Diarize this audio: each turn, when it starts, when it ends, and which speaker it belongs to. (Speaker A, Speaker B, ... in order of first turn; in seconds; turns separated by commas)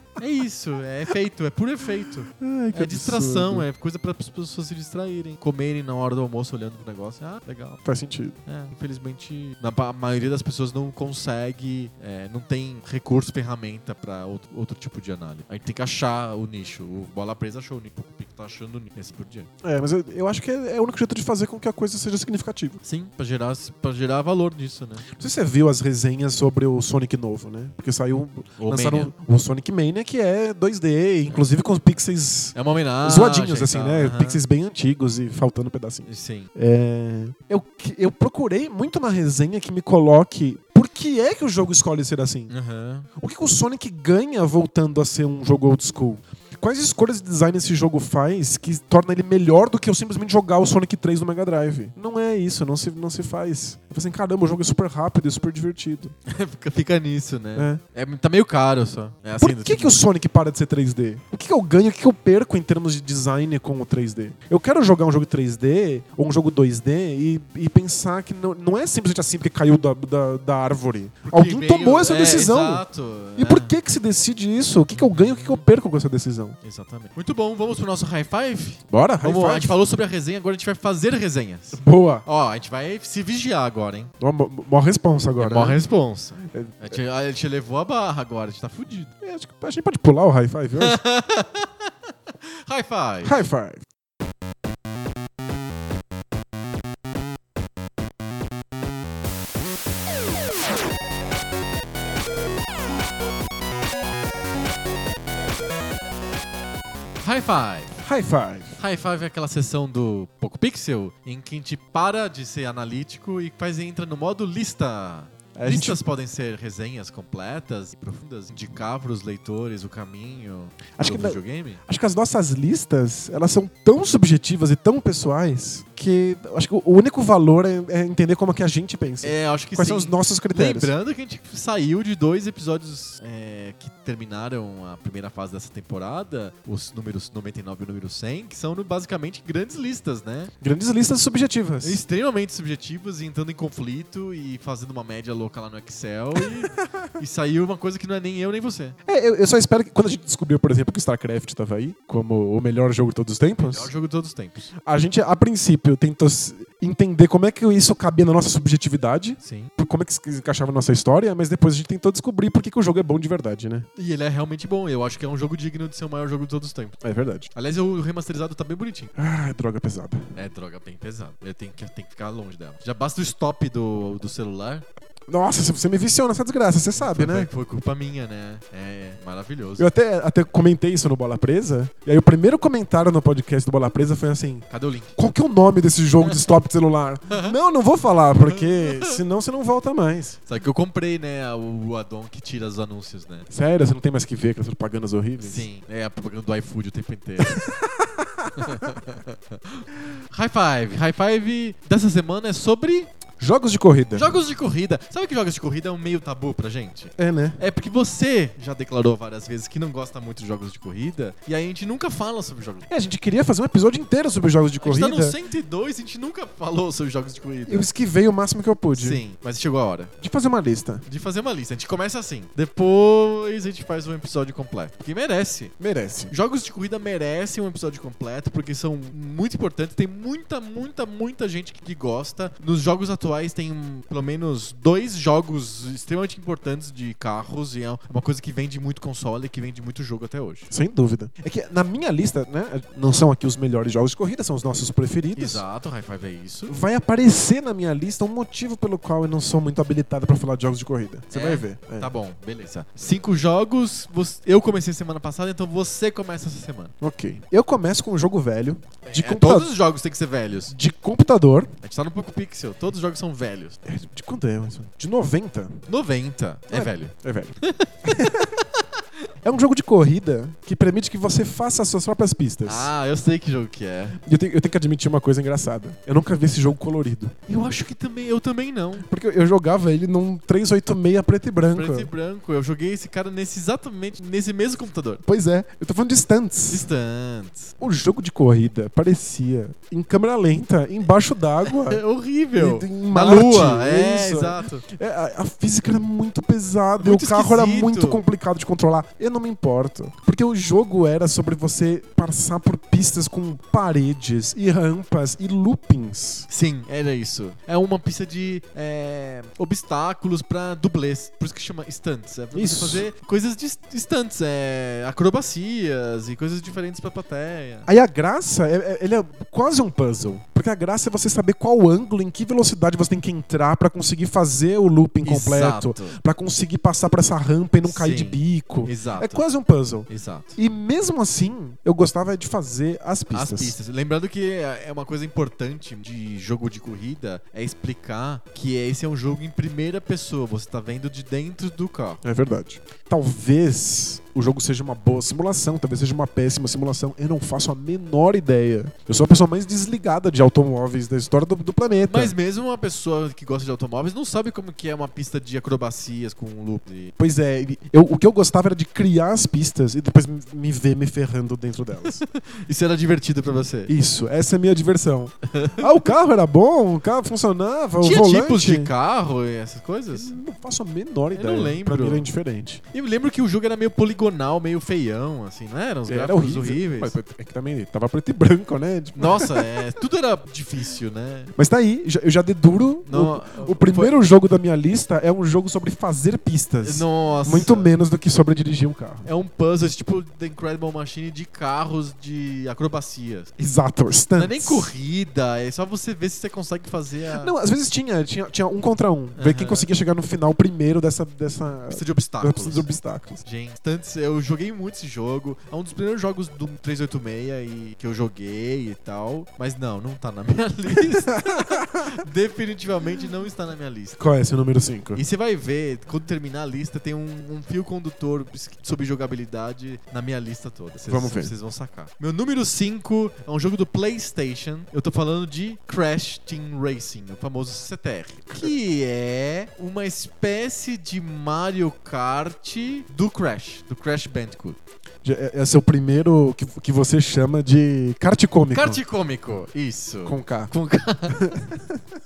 Speaker A: 0.2-7.8, Speaker B: 2.3-3.7, Speaker B: 7.8-8.4, Speaker A: 8.5-19.5, Speaker B: 19.6-22.8, Speaker A: 22.8-25.1, Speaker B: 25.1-42.5, Speaker A: 28.6-29.1, Speaker A: 32.5-34.4, Speaker A: 36.1-36.5, Speaker A: 42.5-43.1, Speaker B: 43.2-56.1, Speaker A: 56.3-60.0, Speaker B: 57.6-57.8, Speaker B: 59.4-72.8, Speaker A: 71.3-73.7, Speaker B: 73.4-76.6, Speaker A: 74.9-75.6, Speaker A: 76.6-84.1, Speaker B: 78.9-79.8, Speaker B: 81.8-82.2, Speaker B: 84.2-85.8, Speaker A: 85.4-89.1, Speaker B: 86.5-87.0, Speaker B: 89.2-91.0, Speaker A: 90.8-93.4, Speaker B: 93.2-93.8, Speaker A: 107.2-108.0, Speaker B: 108.0-108.8, Speaker A: 108.8-121.8, Speaker B: 115.5-116.0, Speaker B: 121.0-130.9, Speaker A: 129.2-140.5, Speaker B: 140.6-142.0, Speaker A: 141.8-149.0, Speaker B: 149.1-153.9, Speaker A: 153.6-154.7, Speaker B: 154.8-163.9, Speaker A: 159.4-159.7, Speaker A: 164.0-167.0, Speaker B: 167.0-167.5, Speaker A: 167.5-169.1, Speaker B: 169.2-170.3, Speaker A: 170.3-174.8, Speaker B: 175.3-177.5, Speaker A: 176.9-179.9, Speaker B: 179.8-190.4, Speaker A: 184.7-185.2, Speaker A: 187.3-187.6, Speaker A: 188.5-189.2, Speaker A: 190.5-193.5, Speaker B: 193.5-195.7, Speaker A: 195.4-197.6, Speaker B: 197.4-198.9, Speaker A: 198.6-203.1, Speaker B: 203.4-204.4, Speaker A: 204.1-212.9, Speaker B: 207.2-207.6, Speaker B: 212.9-215.4, Speaker A: 214.8-217.9, Speaker B: 217.7-219.2, Speaker A: 218.9-220.1, Speaker B: 220.2-221.0, Speaker A: 221.1-225.8, Speaker B: 225.8-226.3, Speaker A: 226.3-240.7, Speaker B: 240.7-245.6, Speaker A: 245.4-246.8, Speaker B: 246.7-252.1, Speaker A: 251.3-256.9, Speaker B: 257.0-259.7, Speaker A: 259.1-260.7, Speaker B: 260.7-261.7, Speaker A: 261.8-263.8, Speaker B: 263.9-265.9, Speaker A: 265.9-268.2, Speaker B: 266.7-267.5, Speaker B: 268.1-268.5, Speaker B: 269.4-272.9, Speaker A: 272.6-274.2, Speaker B: 274.2-277.4, Speaker A: 277.5-279.1, Speaker B: 279.0-282.1, Speaker A: 281.7-285.2, Speaker B: 285.2-286.9, Speaker A: 286.7-287.8, Speaker B: 287.8-292.0, Speaker A: 291.7-294.8, Speaker B: 292.6-306.5, Speaker A: 297.0-298.2, Speaker A: 306.5-317.9, Speaker B: 312.5-313.1, Speaker B: 317.9-333.8, Speaker A: 325.2-326.2, Speaker A: 327.8-329.5, Speaker A: 330.1-330.6, Speaker A: 333.3-342.2, Speaker B: 342.2-352.3, Speaker A: 352.1-357.1, Speaker B: 357.2-362.2, Speaker A: 362.1-363.9, Speaker B: 363.9-368.9, Speaker A: 365.5-365.9, Speaker A: 368.0-370.4, Speaker B: 370.1-372.8, Speaker A: 371.3-372.3, Speaker A: 372.9-377.2, Speaker B: 376.1-379.7, Speaker A: 379.2-381.5, Speaker B: 381.6-389.3, Speaker A: 383.1-384.1, Speaker A: 386.8-387.9, Speaker A: 389.2-393.5, Speaker B: 393.6-394.9, Speaker A: 394.4-397.5, Speaker B: 397.4-403.4, Speaker A: 399.4-399.9, Speaker A: 401.9-402.9, Speaker A: 403.4-414.2, Speaker B: 411.4-412.1, Speaker B: 414.2-415.2, Speaker A: 415.1-434.8, Speaker B: 421.1-421.5, Speaker B: 435.2-439.0, Speaker A: 438.7-441.5, Speaker B: 440.2-440.7, Speaker B: 441.3-442.0